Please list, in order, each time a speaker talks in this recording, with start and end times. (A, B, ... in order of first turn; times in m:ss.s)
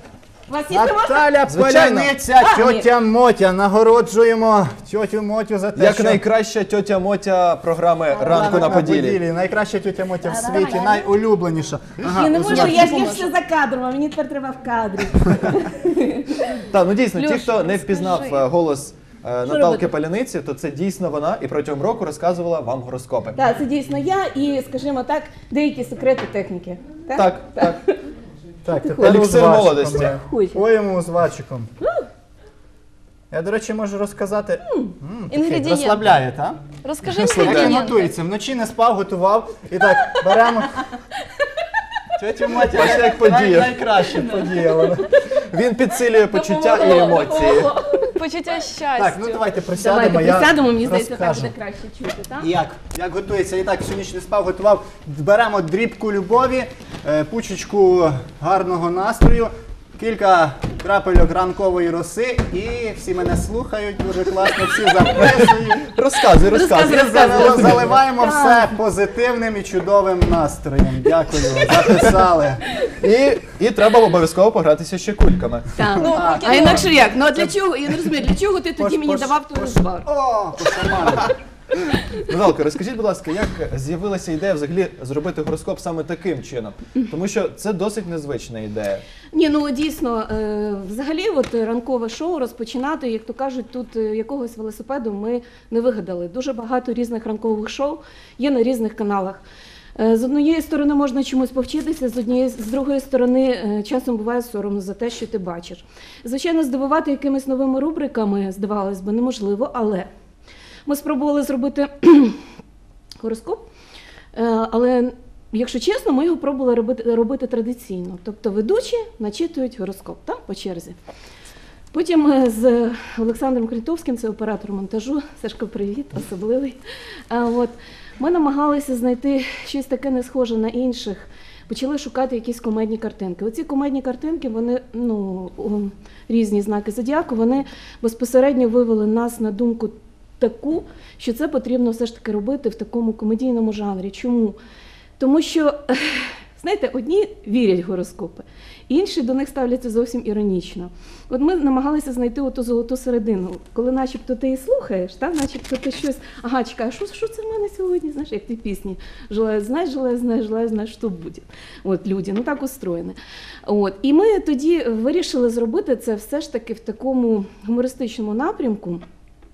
0:00.5-0:01.3 A
0:00.7-0:06.2 B
0:01.4-0:02.1 C
0:02.3-0:02.9 A
0:05.7-0:09.2 C
0:08.1-0:08.7 A
0:08.2-0:13.0 B
0:10.2-0:11.0 A
0:12.0-0:16.6 A
0:12.3-0:13.3 D
0:16.7-0:23.4 C
0:17.2-0:18.4 A
0:17.8-0:18.2 D
0:19.4-0:19.9 A
0:23.3-0:28.0 A
0:27.1-0:27.8 C
0:28.6-0:31.7 B
0:28.7-0:29.4 A
0:29.0-0:30.2 C
0:29.9-0:30.6 A
0:31.8-0:32.1 A
0:33.3-0:36.6 B
0:34.6-0:34.9 A
0:35.3-0:36.2 D
0:36.8-0:38.1 D
0:37.0-0:37.8 C
0:37.4-0:40.8 B
0:42.2-0:45.2 B
0:42.6-0:43.8 C
0:43.8-0:45.1 A
0:45.4-0:47.7 C
0:46.3-0:48.2 A
0:46.8-0:49.5 D
0:49.0-0:51.5 B
0:49.7-0:52.5 A
0:52.4-1:05.9 B
1:05.2-1:08.0 C
1:06.4-1:08.7 A
1:06.8-1:12.8 B
1:12.9-1:15.8 C
1:15.8-1:20.1 A
1:15.9-1:16.9 B
1:16.0-1:16.9 D
1:18.8-1:21.3 B
1:22.2-1:29.0 C
1:29.3-1:39.4 A
1:40.0-1:50.1 A
1:50.8-1:52.4 A
1:53.2-1:53.7 A
1:54.3-2:01.0 A
2:01.9-2:06.8 A
2:07.3-2:24.6 A
2:25.2-2:49.0 A